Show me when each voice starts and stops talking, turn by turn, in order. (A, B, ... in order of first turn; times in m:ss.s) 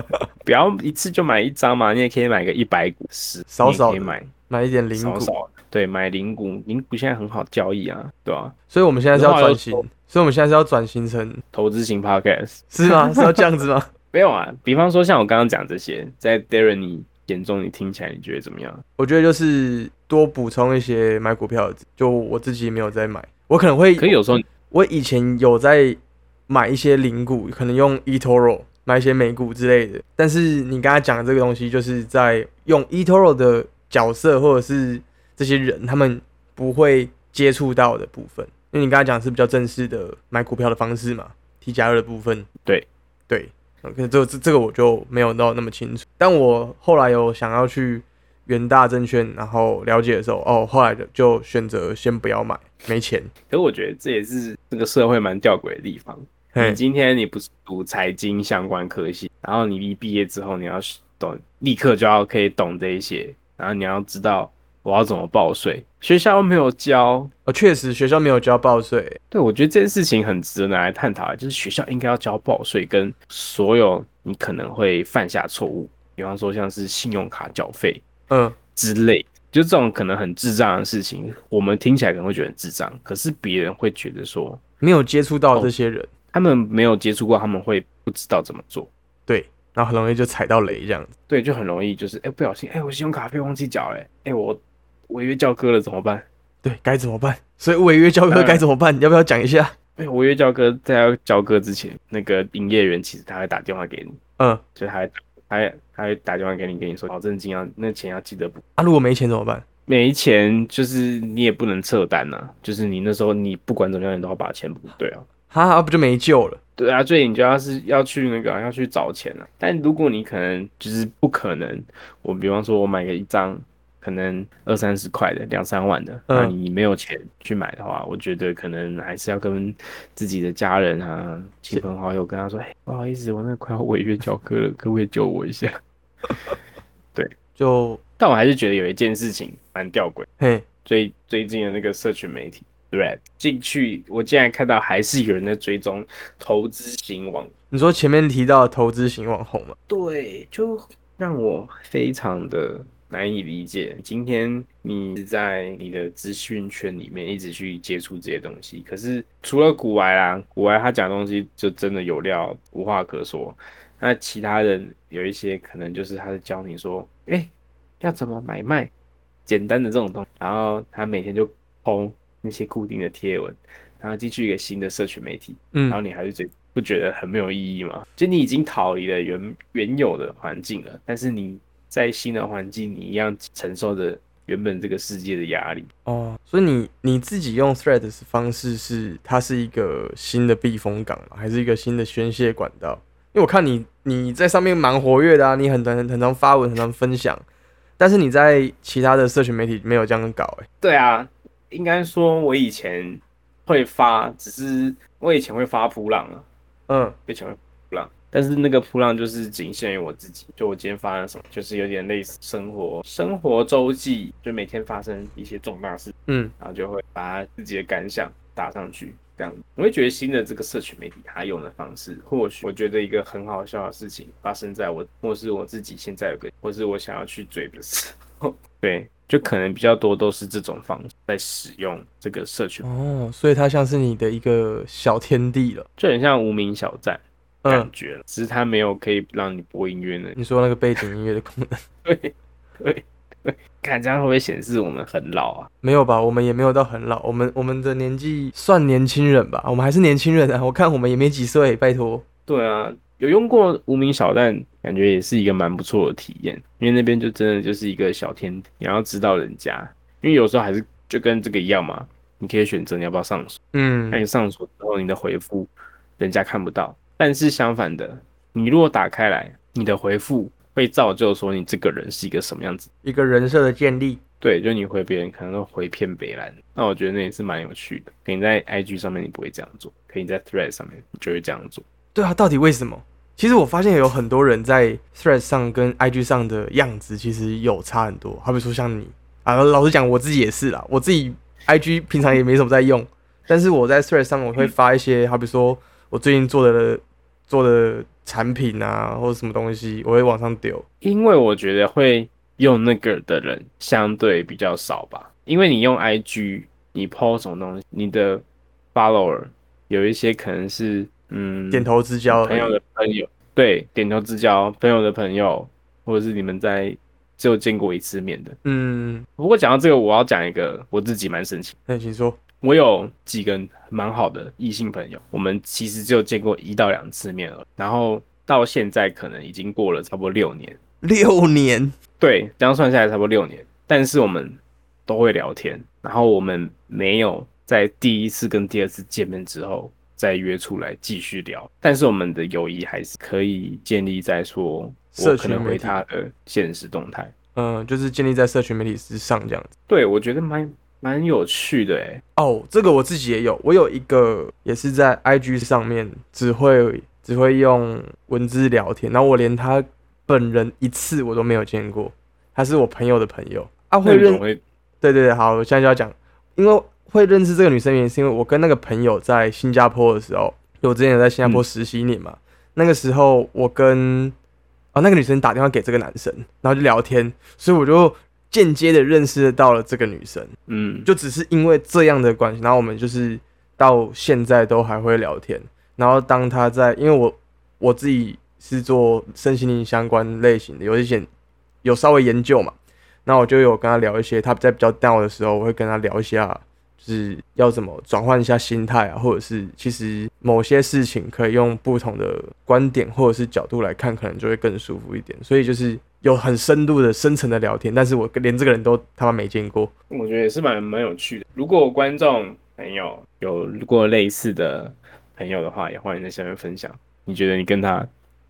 0:00.4-0:04.3 A
0:03.5-0:05.3 B
0:04.9-0:08.6 A
0:08.7-0:11.4 B
0:09.1-0:09.9 A
0:11.5-0:13.4 A
0:12.7-0:13.9 B
0:14.1-0:18.8 A
0:19.0-0:24.2 B
0:24.0-0:24.5 A
0:24.7-0:42.5 B
0:43.3-0:53.3 B
0:53.5-1:07.3 A
0:56.5-0:56.8 B
1:07.5-1:09.2 B
1:09.3-1:18.0 A
1:18.3-1:18.6 B
1:18.8-1:24.6 A
1:24.8-1:26.1 B
1:26.3-1:28.9 A
1:29.3-1:31.1 B
1:31.3-1:36.3 A
1:36.6-1:39.8 B
1:38.3-1:38.6 A
1:40.0-1:44.2 A
1:44.8-1:48.6 A
1:48.8-1:49.6 B
1:49.9-1:55.3 A
1:55.5-1:56.6 B
1:56.8-2:15.8 A
2:06.3-2:06.6 B
2:17.6-2:18.0 B
2:18.2-2:20.3 A
2:20.4-2:20.6 B
2:20.8-2:27.5 A
2:27.7-2:29.8 B
2:29.9-2:48.9 A
2:49.5-3:05.9 A
2:55.7-2:56.0 B
3:06.1-3:17.4 B
3:18.0-3:20.7 B
3:20.8-3:26.5 A
3:26.9-3:27.2 B
3:27.3-3:52.9 A
3:36.3-3:36.5 B
3:52.8-3:55.9 B
3:56.0-4:00.4 A
3:57.6-3:57.9 B
4:00.4-4:01.8 B
4:02.0-4:05.7 A
4:05.8-4:12.2 B
4:12.5-4:23.6 A
4:23.7-4:24.2 B
4:24.1-4:32.9 A
4:33.0-4:34.2 B
4:34.4-4:41.8 A
4:42.2-5:00.8 B
5:01.0-5:18.6 A
5:11.7-5:12.8 B
5:18.6-5:19.2 B
5:19.4-5:21.8 A
5:21.9-5:22.4 B
5:22.6-5:30.8 A
5:31.0-5:32.0 B
5:32.2-5:47.3 A
5:45.2-5:46.0 B
5:47.6-5:49.7 B
5:49.9-5:52.2 A
5:52.4-6:04.4 B
6:04.0-6:04.6 A
6:05.0-6:14.4 B
6:14.9-6:20.5 B
6:20.7-6:21.1 A
6:21.1-6:31.3 B
6:31.8-6:32.8 B
6:33.3-6:49.9 B
6:50.1-6:58.1 A